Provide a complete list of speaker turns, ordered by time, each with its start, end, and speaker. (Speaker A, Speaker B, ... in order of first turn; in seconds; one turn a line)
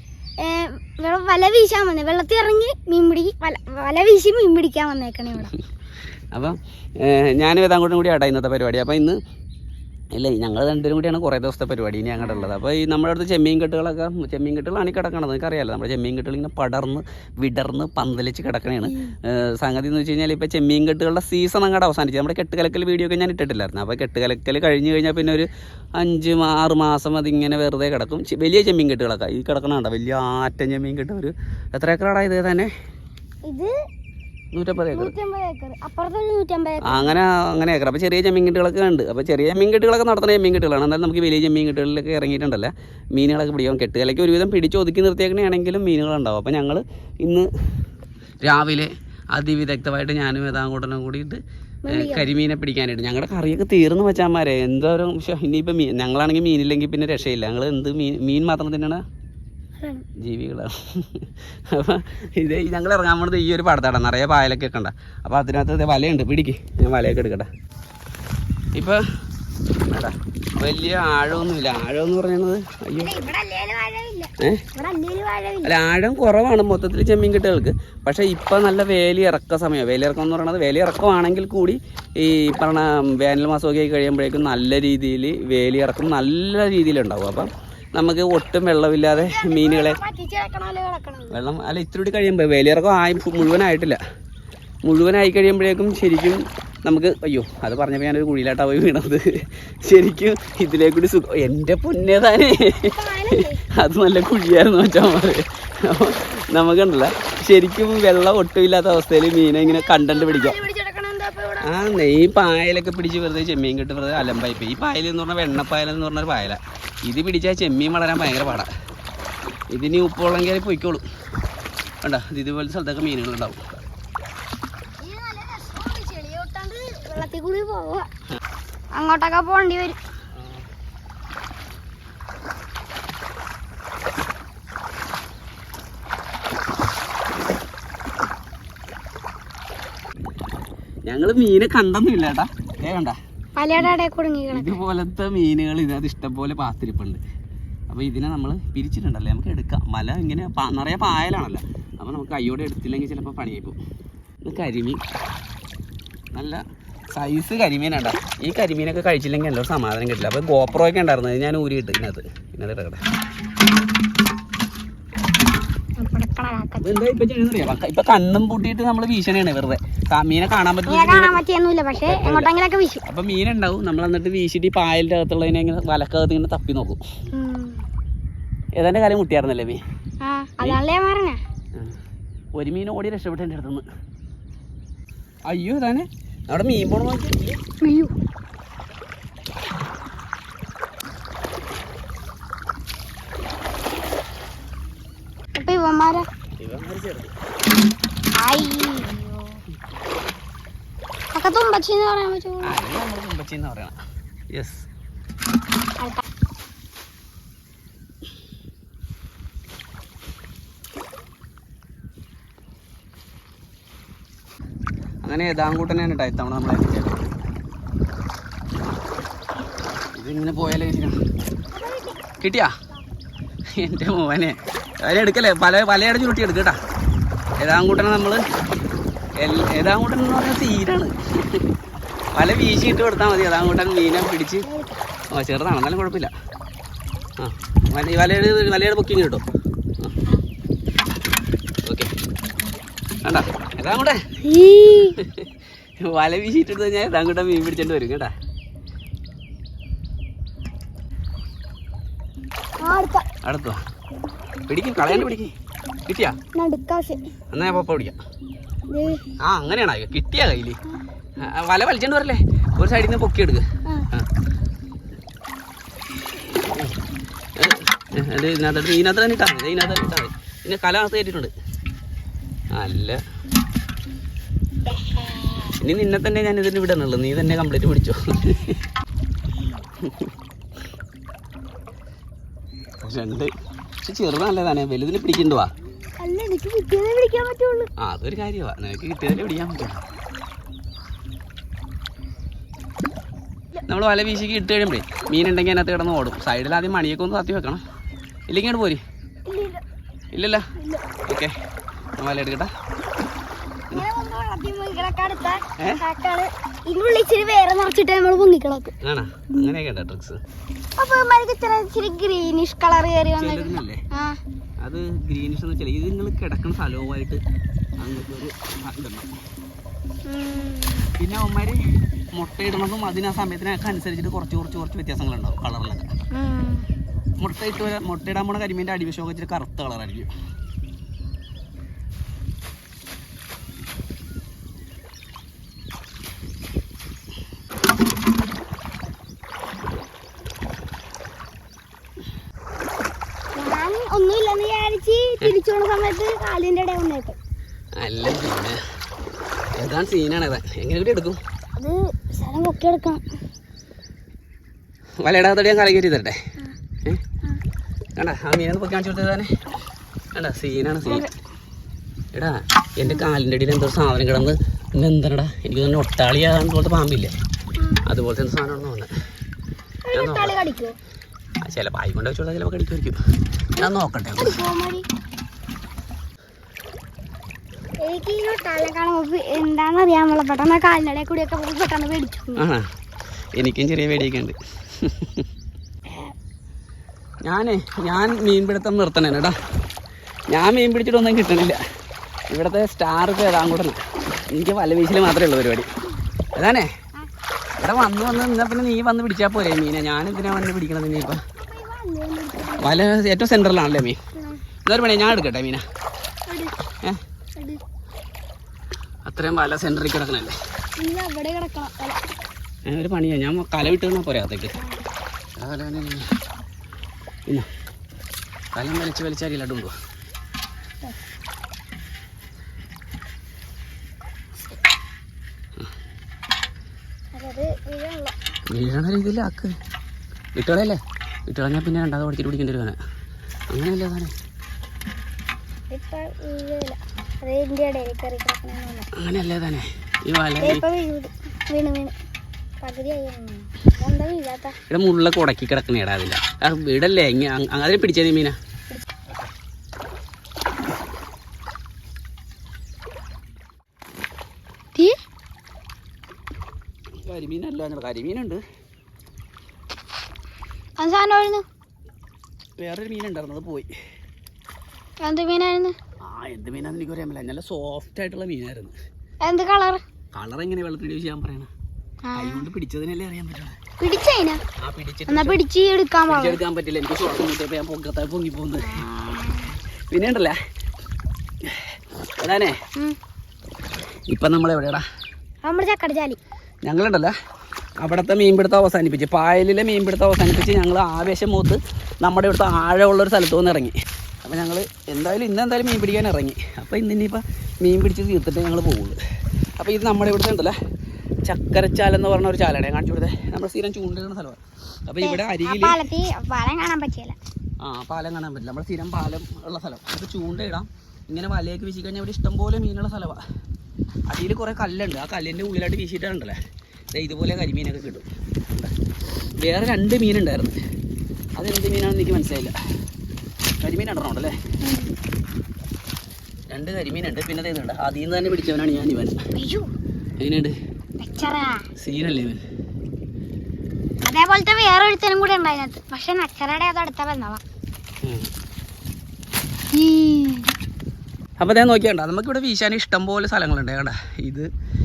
Speaker A: 0.4-5.5
Speaker B: 6.3-9.2
Speaker B: 10.1-32.7
Speaker A: 12.2-12.6
Speaker A: 18.9-19.1
Speaker A: 33.5-33.7
Speaker B: 34.5-35.1
Speaker A: 34.9-37.2
Speaker B: 36.9-47.5
Speaker B: 48.4-59.0
Speaker A: 51.9-52.3
Speaker A: 59.8-60.0
Speaker B: 60.2-67.5
Speaker B: 68.7-69.0
Speaker B: 69.9-73.2
Speaker A: 73.0-75.7
Speaker B: 75.7-90.0
Speaker A: 89.2-91.4
Speaker B: 91.3-94.0
Speaker B: 94.8-110.6
Speaker A: 102.9-103.6
Speaker A: 109.6-111.7
Speaker B: 111.6-118.7
Speaker B: 119.7-121.0
Speaker B: 122.0-123.7
Speaker A: 125.0-128.1
Speaker A: 128.9-130.0
Speaker B: 130.4-130.6
Speaker B: 141.1-143.2
Speaker A: 143.6-144.8
Speaker B: 144.5-147.2
Speaker B: 147.9-153.8
Speaker B: 154.4-155.0
Speaker B: 156.3-156.6
Speaker B: 157.1-163.0
Speaker A: 166.0-167.1
Speaker B: 166.8-171.4
Speaker A: 170.9-173.0
Speaker B: 172.1-172.5
Speaker B: 173.1-177.0
Speaker A: 177.3-177.8
Speaker B: 178.8-179.8
Speaker A: 180.2-181.4
Speaker B: 182.6-183.8
Speaker B: 185.5-187.6
Speaker A: 187.8-188.1
Speaker A: 195.6-196.2
Speaker B: 196.6-197.3
Speaker A: 198.4-199.6
Speaker A: 201.3-202.8
Speaker B: 202.6-204.0
Speaker B: 204.5-204.9
Speaker B: 215.2-217.3
Speaker B: 220.2-221.2
Speaker A: 221.7-222.3
Speaker B: 222.4-222.7
Speaker B: 223.7-226.8
Speaker B: 227.6-228.4
Speaker B: 229.4-231.7
Speaker B: 232.3-234.7
Speaker A: 234.7-234.9
Speaker B: 235.3-236.3
Speaker B: 237.4-239.4
Speaker B: 241.8-242.1
Speaker B: 243.2-244.2
Speaker A: 244.4-245.2
Speaker B: 245.2-245.5
Speaker B: 246.0-248.3
Speaker A: 252.8-253.2
Speaker B: 253.4-253.8
Speaker B: 254.7-255.5
Speaker B: 256.1-256.4
Speaker A: 256.6-257.3
Speaker B: 257.5-258.2
Speaker A: 258.9-259.2
Speaker B: 259.4-260.8
Speaker B: 261.4-264.3
Speaker B: 266.3-267.0
Speaker B: 267.6-271.5
Speaker B: 272.7-273.2
Speaker A: 274.9-275.8
Speaker B: 275.8-278.8
Speaker B: 280.0-280.3
Speaker B: 283.0-285.7
Speaker A: 286.2-287.9
Speaker B: 288.0-290.0
Speaker B: 293.9-297.8
Speaker B: 298.5-299.0
Speaker A: 299.5-299.8
Speaker B: 300.3-300.7
Speaker A: 300.8-301.0
Speaker B: 301.3-301.5
Speaker B: 302.2-302.7
Speaker A: 303.9-308.9
Speaker B: 305.8-306.0
Speaker B: 309.0-310.4
Speaker A: 311.0-314.4
Speaker B: 313.4-314.0
Speaker B: 314.8-317.4
Speaker B: 318.0-319.3
Speaker A: 320.3-321.1
Speaker B: 321.2-321.8
Speaker B: 322.3-326.1
Speaker A: 326.3-326.9
Speaker B: 327.4-330.3
Speaker A: 343.6-347.4
Speaker B: 348.0-348.8
Speaker B: 349.8-351.4
Speaker A: 351.8-353.2
Speaker B: 355.2-356.4
Speaker B: 358.2-359.5
Speaker B: 360.4-361.3
Speaker B: 362.3-367.3
Speaker B: 368.1-369.1
Speaker A: 370.1-371.0
Speaker B: 370.1-370.6
Speaker B: 371.6-373.2
Speaker B: 373.8-374.6
Speaker A: 374.4-375.1
Speaker A: 378.0-382.6
Speaker B: 382.6-382.9
Speaker B: 383.6-385.5
Speaker B: 387.4-389.6
Speaker B: 390.5-391.8
Speaker B: 392.5-395.9
Speaker B: 396.6-396.9
Speaker B: 397.8-401.4
Speaker A: 401.6-403.0
Speaker B: 402.8-404.2
Speaker A: 404.4-404.6
Speaker B: 404.9-405.8
Speaker A: 406.5-406.8
Speaker B: 409.3-410.6
Speaker A: 411.0-412.2
Speaker B: 412.9-414.8
Speaker B: 415.6-416.3
Speaker B: 418.8-419.9
Speaker A: 427.3-428.3
Speaker B: 428.7-429.7
Speaker B: 430.6-433.0
Speaker B: 433.7-434.3
Speaker A: 435.9-439.1
Speaker B: 439.2-440.8
Speaker A: 440.6-442.1
Speaker A: 442.8-444.8
Speaker B: 444.9-448.6
Speaker B: 457.2-458.6
Speaker A: 461.0-461.6
Speaker B: 462.8-463.9
Speaker A: 465.2-465.9
Speaker B: 466.2-468.9
Speaker A: 469.4-470.0
Speaker B: 470.3-471.7
Speaker A: 472.2-472.6
Speaker B: 472.4-473.8
Speaker A: 474.0-474.6
Speaker B: 474.8-475.6
Speaker A: 475.3-476.6
Speaker B: 476.3-479.1
Speaker A: 478.8-479.7
Speaker B: 480.1-480.6
Speaker B: 481.6-482.8
Speaker B: 484.3-485.0
Speaker A: 485.6-486.4
Speaker B: 486.8-487.3
Speaker B: 488.0-499.2
Speaker B: 499.8-500.8
Speaker B: 501.5-506.0
Speaker A: 505.2-507.4
Speaker B: 507.8-513.4
Speaker B: 514.3-516.6
Speaker B: 517.1-520.8
Speaker B: 521.6-522.8
Speaker B: 523.8-524.6
Speaker A: 524.8-525.1
Speaker B: 526.7-529.4
Speaker A: 529.5-529.9
Speaker B: 530.4-530.7
Speaker A: 531.2-531.8
Speaker B: 532.0-532.6
Speaker A: 534.2-537.6
Speaker B: 538.2-538.5
Speaker A: 539.9-540.7
Speaker B: 541.6-544.7